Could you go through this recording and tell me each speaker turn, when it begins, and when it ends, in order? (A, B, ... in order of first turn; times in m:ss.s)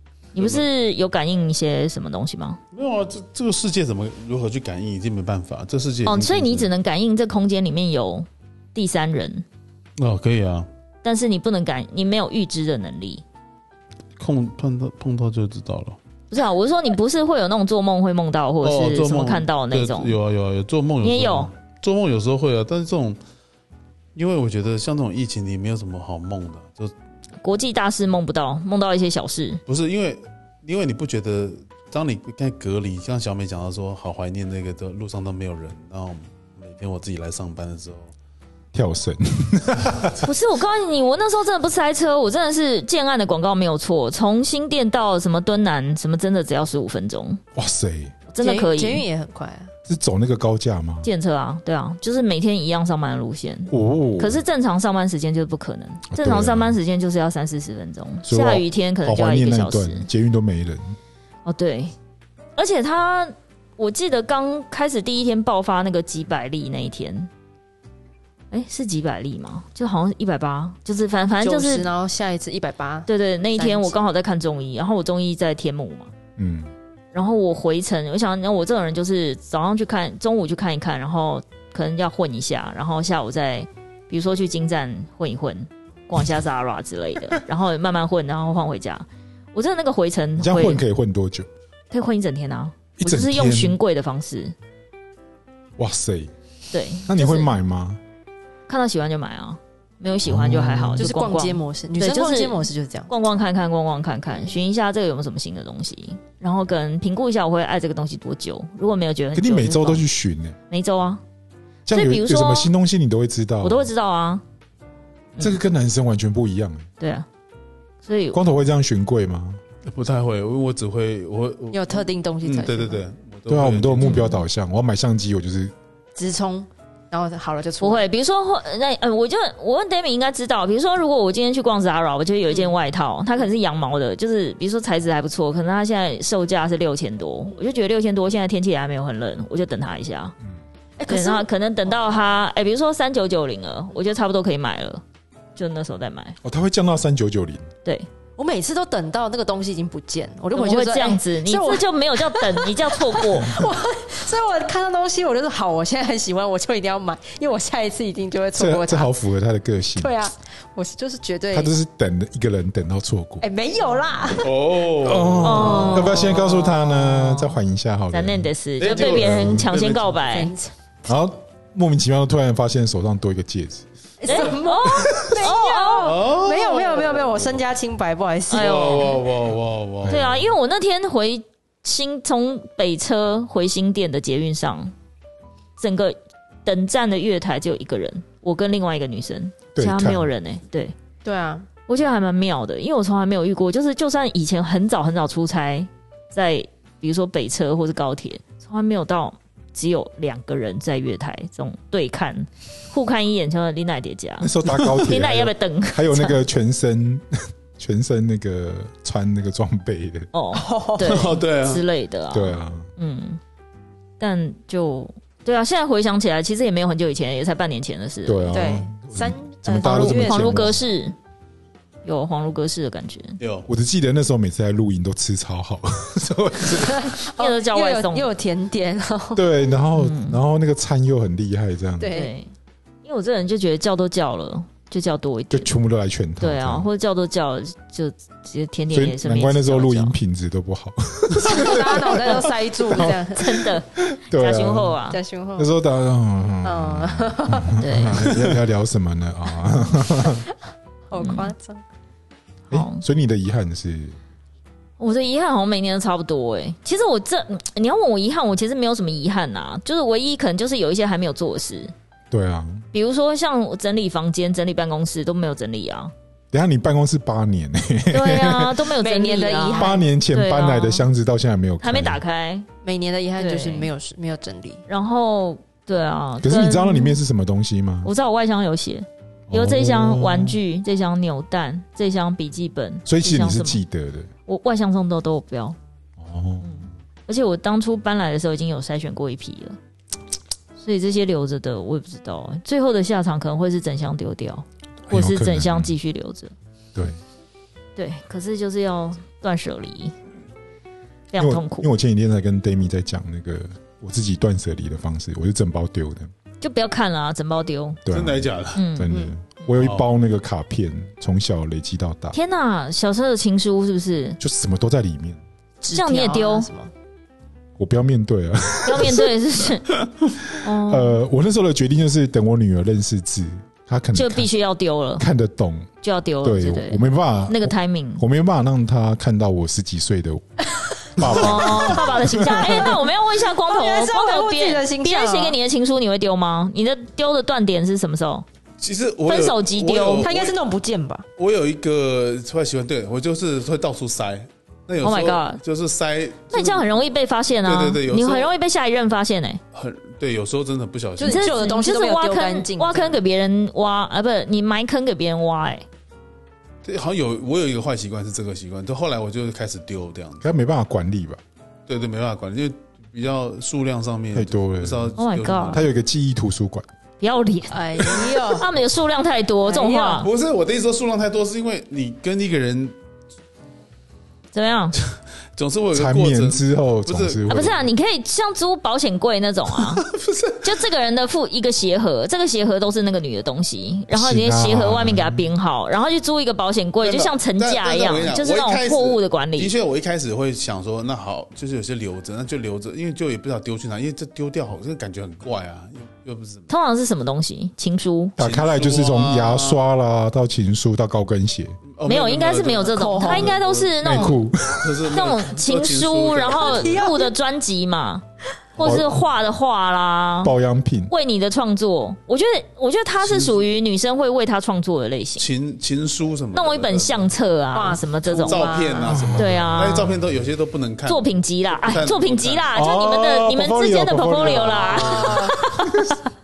0:00.3-0:02.6 A
0:00.4-0:00.6 B
0:02.7-0:06.7 B
0:06.0-0:09.4 A
0:10.0-0:10.7 B
0:11.0-0:13.2 A
0:14.2-0:16.0 B
0:16.3-0:20.2 A
0:18.6-0:23.2 B
0:21.0-0:21.5 A
0:24.1-0:26.9 B
0:27.4-0:29.6 A
0:29.7-0:38.1 B
0:38.7-0:40.3 C
0:40.2-0:47.4 A
0:47.5-0:48.1 C
0:48.3-0:49.0 A
0:48.4-0:49.7 D
0:49.8-0:51.1 C
0:51.0-1:00.1 A
0:53.7-0:54.4 C
0:56.1-0:56.8 C
0:58.2-1:01.0 C
1:01.4-1:01.9 A
1:02.6-1:07.3 A
1:08.5-1:11.9 A
1:11.4-1:14.0 D
1:13.1-1:16.1 A
1:16.4-1:16.7 C
1:17.1-1:30.8 A
1:30.4-1:31.5 C
1:31.9-1:34.5 A
1:33.0-1:33.8 C
1:35.8-1:36.3 C
1:36.7-1:37.5 A
1:37.0-1:38.0 C
1:38.7-1:50.0 A
1:40.2-1:41.1 C
1:41.0-1:43.1 D
1:49.3-1:50.6 C
1:50.7-1:51.2 A
1:51.8-1:53.9 C
1:51.9-1:52.7 A
1:53.6-1:54.4 A
1:55.4-1:56.9 C
1:57.0-1:57.3 A
1:58.0-1:58.4 A
1:58.3-1:59.6 C
1:59.8-2:04.2 B
2:01.7-2:03.0 D
2:03.5-2:05.7 C
2:04.0-2:04.4 A
2:06.2-2:08.0 D
2:07.8-2:20.4 A
2:21.0-2:21.5 D
2:21.1-2:25.0 A
2:25.6-2:26.4 A
2:26.4-2:27.7 C
2:28.4-2:39.1 D
2:30.5-2:33.6 A
2:38.5-2:40.1 C
2:40.0-2:41.7 D
2:41.5-2:43.4 C
2:43.4-2:44.5 D
2:44.4-2:46.3 B
2:45.0-2:48.5 C
2:45.4-2:46.8 A
2:45.4-2:47.3 D
2:48.1-2:50.5 A
2:48.8-2:50.2 B
2:48.8-2:49.3 D
2:49.0-2:49.6 C
2:50.3-2:50.7 D
2:51.0-2:53.8 C
2:54.2-2:59.2 D
2:54.2-2:56.1 A
2:56.0-2:57.6 B
2:58.5-2:59.2 A
2:58.5-3:00.2 B
3:00.0-3:00.5 C
3:00.1-3:04.9 A
3:05.8-3:10.9 A
3:09.7-3:10.3 C
3:11.2-3:11.7 D
3:11.9-3:26.4 A
3:24.4-3:30.3 C
3:30.3-3:33.4 A
3:30.5-3:31.4 D
3:31.0-3:31.8 B
3:32.3-3:32.9 C
3:34.2-3:38.8 A
3:38.2-3:40.8 C
3:38.5-3:40.7 D
3:39.8-3:41.2 A
3:42.0-3:43.4 A
3:43.4-3:43.7 B
3:43.7-3:47.2 C
3:46.8-3:49.4 D
3:47.4-3:48.3 A
3:49.3-3:52.2 C
3:49.9-3:50.4 A
3:52.0-3:52.3 D
3:52.1-3:52.5 A
3:53.0-3:55.7 A
3:55.5-3:56.9 C
3:56.4-4:00.1 A
3:58.9-4:05.0 C
4:01.4-4:03.7 D
4:03.3-4:05.2 A
4:05.1-4:05.7 D
4:05.6-4:10.4 C
4:06.6-4:07.8 D
4:07.8-4:08.2 A
4:08.3-4:08.6 B
4:11.1-4:11.8 D
4:11.2-4:11.5 A
4:12.7-4:13.0 A
4:12.7-4:14.2 C
4:15.0-4:21.9 A
4:22.3-4:22.8 C
4:22.9-4:26.1 A
4:26.5-4:28.9 C
4:28.1-4:31.0 A
4:29.0-4:30.1 D
4:29.8-4:32.2 C
4:31.8-4:32.7 A
4:32.8-4:34.8 D
4:33.4-4:33.9 A
4:34.9-4:37.2 A
4:36.4-4:38.1 C
4:38.0-4:43.8 A
4:39.5-4:40.6 C
4:43.0-4:44.3 C
4:44.5-4:45.8 A
4:46.2-4:46.9 C
4:46.6-4:49.8 A
4:50.8-4:56.5 A
4:55.1-4:55.9 C
4:58.0-5:00.1 A
5:01.3-5:01.9 A
5:01.4-5:06.3 C
5:06.6-5:08.0 A
5:08.0-5:12.4 C
5:08.1-5:08.8 B
5:08.7-5:09.1 A
5:09.7-5:10.1 B
5:12.3-5:14.4 A
5:14.4-5:15.4 C
5:15.8-5:16.9 D
5:15.9-5:16.7 A
5:17.8-5:19.3 C
5:18.8-5:19.9 A
5:20.5-5:24.5 C
5:20.6-5:21.2 A
5:24.1-5:25.2 A
5:25.2-5:25.9 C
5:26.0-5:28.2 A
5:26.4-5:30.4 C
5:30.8-5:31.6 D
5:31.1-5:33.0 C
5:31.2-5:38.4 A
5:32.3-5:33.0 D
5:33.5-5:35.6 D
5:38.8-5:40.5 B
5:39.2-5:40.3 A
5:40.2-5:41.2 D
5:41.4-5:47.0 B
5:45.0-5:45.6 A
5:46.5-5:49.6 A
5:47.6-5:48.5 B
5:49.7-5:51.6 B
5:51.2-5:53.2 D
5:51.2-5:55.8 A
5:56.8-6:00.5 B
6:00.4-6:01.4 C
6:01.9-6:05.9 B
6:04.3-6:05.2 C
6:05.2-6:05.8 A
6:05.7-6:06.8 C
6:07.2-6:10.3 A
6:07.7-6:08.7 D
6:09.6-6:10.3 D
6:10.2-6:12.9 B
6:14.5-6:15.0 A
6:15.5-6:17.7 B
6:15.9-6:17.8 C
6:17.5-6:20.1 A
6:19.8-6:20.6 B
6:20.6-6:29.7 A
6:24.1-6:25.5 C
6:27.0-6:36.7 B
6:36.7-6:38.4 A
6:38.4-6:41.8 C
6:38.4-6:39.8 B
6:41.9-6:44.0 B
6:42.0-6:44.4 A
6:42.9-6:43.5 D
6:44.0-6:44.9 C
6:44.8-6:47.1 B
6:45.1-6:48.2 A
6:46.6-6:47.3 D
6:48.8-6:49.1 B
6:48.8-6:50.5 A
6:48.8-6:49.2 C
6:50.4-6:51.1 C
6:51.1-6:55.5 A
6:53.2-6:53.6 B
6:55.4-6:57.3 B
6:56.5-7:00.1 A
6:57.7-6:59.2 D
6:58.3-7:02.7 B
6:59.0-7:00.2 C
7:01.0-7:06.2 A
7:02.7-7:06.2 C
7:04.9-7:05.6 D